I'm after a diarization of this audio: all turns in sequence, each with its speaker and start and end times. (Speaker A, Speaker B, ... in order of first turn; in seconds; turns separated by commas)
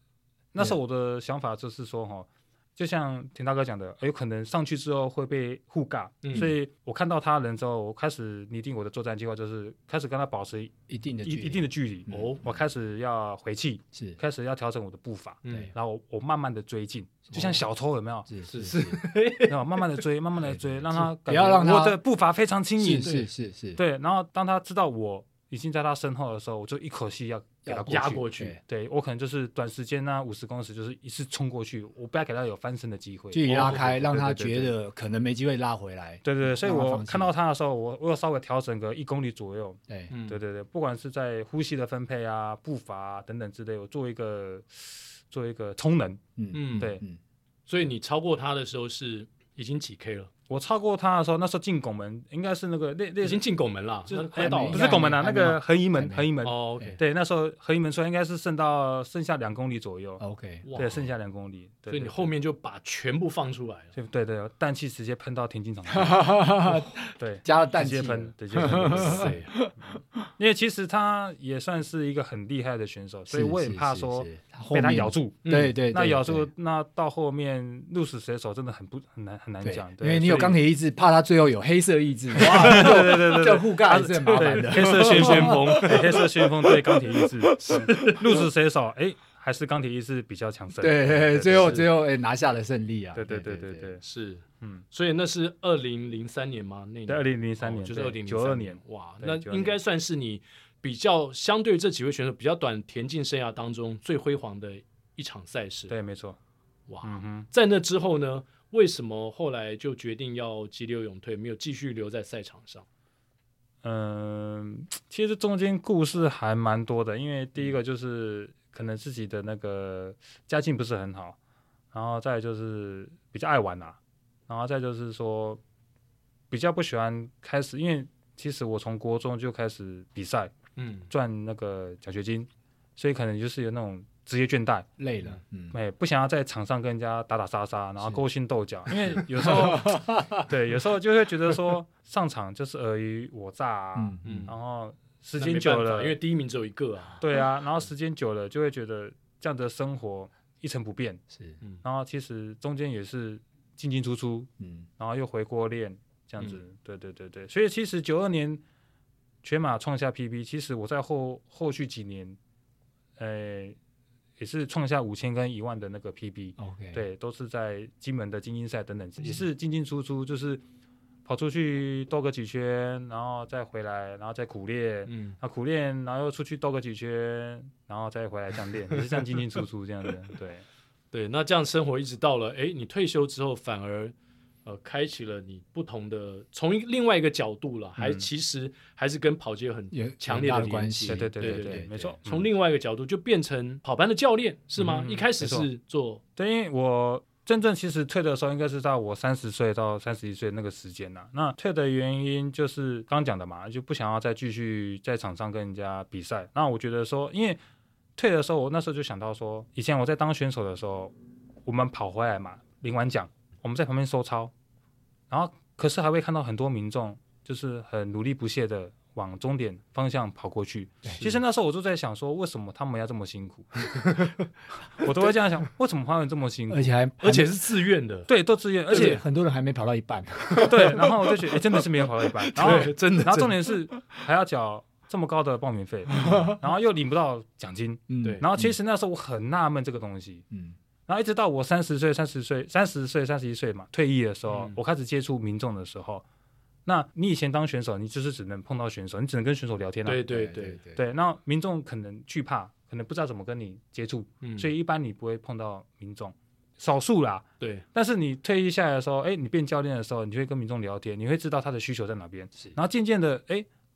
Speaker A: 0.5-10.7, Speaker B: 6.2-6.5, Speaker C: 10.9-12.6, Speaker A: 11.2-18.3, Speaker B: 12.1-12.4, Speaker B: 15.4-15.7, Speaker C: 17.3-17.6, Speaker C: 18.3-19.0, Speaker B: 18.5-19.8, Speaker A: 19.4-23.2, Speaker C: 20.4-22.0, Speaker C: 22.8-23.8, Speaker B: 23.0-23.3, Speaker A: 23.8-34.7, Speaker C: 27.6-28.6, Speaker B: 27.9-28.6, Speaker C: 33.3-37.3, Speaker B: 33.5-33.8, Speaker A: 36.2-46.2, Speaker B: 40.1-40.4, Speaker C: 46.4-47.2, Speaker B: 46.5-46.9, Speaker B: 47.7-50.3, Speaker A: 50.5-53.4, Speaker B: 53.2-55.0, Speaker A: 54.1-60.2, Speaker C: 54.3-56.3, Speaker B: 56.4-57.0, Speaker C: 60.2-60.6, Speaker B: 60.6-61.1, Speaker A: 60.7-62.3, Speaker B: 61.9-63.9, Speaker A: 63.9-66.5, Speaker C: 65.9-70.2, Speaker A: 67.2-69.3, Speaker B: 68.9-69.5, Speaker A: 70.4-80.6, Speaker C: 73.3-76.5, Speaker B: 75.4-75.7, Speaker C: 79.6-88.3, Speaker A: 82.3-91.8, Speaker B: 84.7-86.2, Speaker B: 87.6-88.2, Speaker C: 90.8-94.0, Speaker B: 91.5-91.8, Speaker A: 93.1-94.0, Speaker B: 94.0-105.9, Speaker A: 97.1-99.8, Speaker A: 105.9-106.4, Speaker B: 106.9-112.8, Speaker A: 107.0-107.5, Speaker A: 113.8-121.3, Speaker A: 121.9-124.0, Speaker A: 124.5-125.6, Speaker A: 126.5-130.5, Speaker B: 130.8-131.1, Speaker A: 131.1-134.9, Speaker C: 135.0-135.8, Speaker A: 135.7-146.2, Speaker C: 139.0-140.4, Speaker C: 143.9-144.5, Speaker B: 144.2-144.5, Speaker B: 145.4-147.2, Speaker A: 147.2-151.2, Speaker A: 151.8-158.6, Speaker C: 154.6-154.8, Speaker A: 159.4-162.4, Speaker A: 163.2-163.8, Speaker A: 164.4-170.6, Speaker C: 166.6-167.0, Speaker A: 171.2-180.6, Speaker B: 175.1-175.3, Speaker B: 181.1-184.1, Speaker B: 184.6-196.2, Speaker A: 188.0-188.3, Speaker C: 189.9-192.1, Speaker A: 191.1-192.5, Speaker A: 194.8-195.7, Speaker A: 196.3-207.6, Speaker A: 208.2-211.1, Speaker A: 211.6-214.5, Speaker A: 215.3-223.9, Speaker B: 223.9-224.4, Speaker A: 225.0-226.9, Speaker C: 226.7-227.5, Speaker B: 227.2-228.3, Speaker A: 228.3-229.2, Speaker B: 228.9-229.2, Speaker C: 228.9-231.1, Speaker B: 230.5-231.2, Speaker A: 230.6-240.4, Speaker B: 232.5-233.6, Speaker C: 232.6-232.9, Speaker C: 236.1-236.6, Speaker C: 238.1-238.7, Speaker C: 240.5-240.8, Speaker A: 241.1-246.2, Speaker B: 244.5-244.8, Speaker A: 246.8-250.3, Speaker B: 250.0-250.8, Speaker C: 250.3-251.0, Speaker A: 250.9-263.7, Speaker B: 254.4-254.7, Speaker B: 257.6-257.8